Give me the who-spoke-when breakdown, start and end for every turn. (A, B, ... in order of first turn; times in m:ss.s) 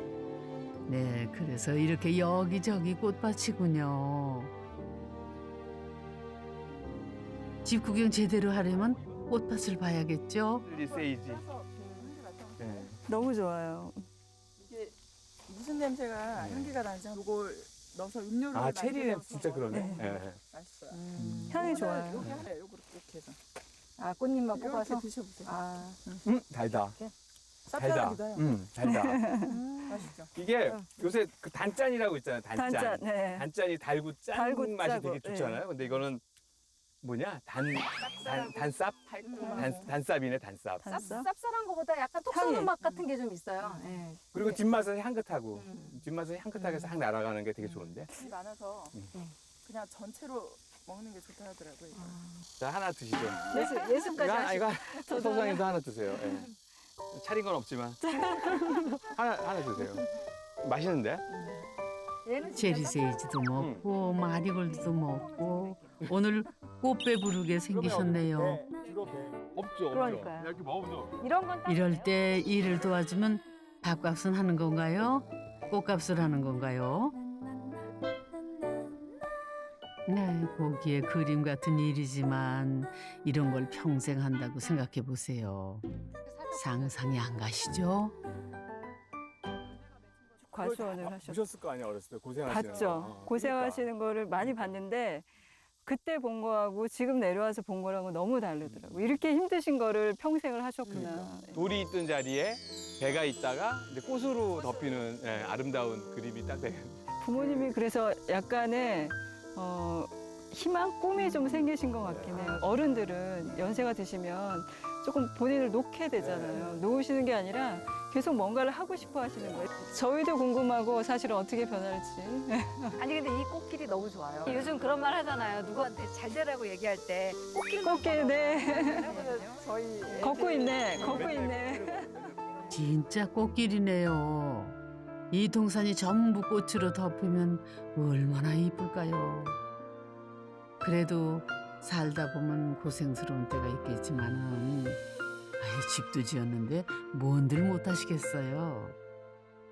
0:00.9-0:04.5 A
0:07.6-0:10.6 A
0:10.6-0:11.4 B
0:10.7-0:12.9 C
0:12.6-0:13.0 B
0:13.1-0:14.1 D
0:14.6-0:14.9 C
0:15.5-0:23.4 C
0:16.4-0:16.8 B
0:18.5-0:20.4 B
0:19.7-0:20.1 D
0:20.9-0:21.7 E
0:21.2-0:21.5 B
0:21.5-0:22.3 D
0:22.2-0:22.4 B
0:24.0-0:26.0 E
0:24.5-0:25.5 C
0:26.2-0:27.0 B
0:27.7-0:28.6 C
0:27.7-0:29.4 B
0:28.8-0:29.5 D
0:29.4-0:30.9 E
0:29.8-0:30.3 C
0:30.3-0:36.2 B
0:32.5-0:33.4 D
0:34.3-0:35.7 D
0:37.0-0:40.9 B
0:38.0-0:38.5 E
0:39.1-0:39.9 C
0:39.2-0:39.9 E
0:40.8-0:41.3 D
0:40.8-0:44.6 E
0:42.3-0:42.8 D
0:44.3-0:48.1 B
0:45.5-0:46.0 E
0:46.6-0:46.9 E
0:48.2-0:48.9 C
0:49.6-0:52.2 C
0:51.9-0:52.4 E
0:52.6-0:56.5 B
0:53.5-0:55.1 E
0:53.5-0:55.7 D
0:57.1-0:58.0 B
0:58.0-0:59.0 D
0:58.7-1:00.0 B
1:00.6-1:01.2 B
1:01.3-1:01.6 C
1:02.2-1:03.2 E
1:02.5-1:08.6 A
1:03.6-1:03.8 B
1:04.3-1:06.0 E
1:07.7-1:11.2 B
1:09.9-1:10.5 E
1:11.2-1:12.1 E
1:11.6-1:17.1 A
1:20.1-1:25.8 A
1:26.2-1:27.1 E
1:26.5-1:28.1 A
1:30.4-1:31.4 D
1:30.6-1:33.9 B
1:32.4-1:35.3 D
1:34.4-1:34.8 B
1:35.8-1:41.6 D
1:38.6-1:39.1 B
1:40.9-1:47.7 B
1:47.2-2:03.0 D
1:52.0-1:52.3 B
1:56.2-1:56.8 B
2:03.0-2:11.3 E
2:04.4-2:04.8 B
2:07.8-2:09.2 D
2:09.2-2:10.1 C
2:10.2-2:12.1 D
2:10.6-2:12.8 B
2:12.7-2:14.8 A
2:15.3-2:19.6 A
2:20.8-2:25.0 A
2:25.6-2:29.0 A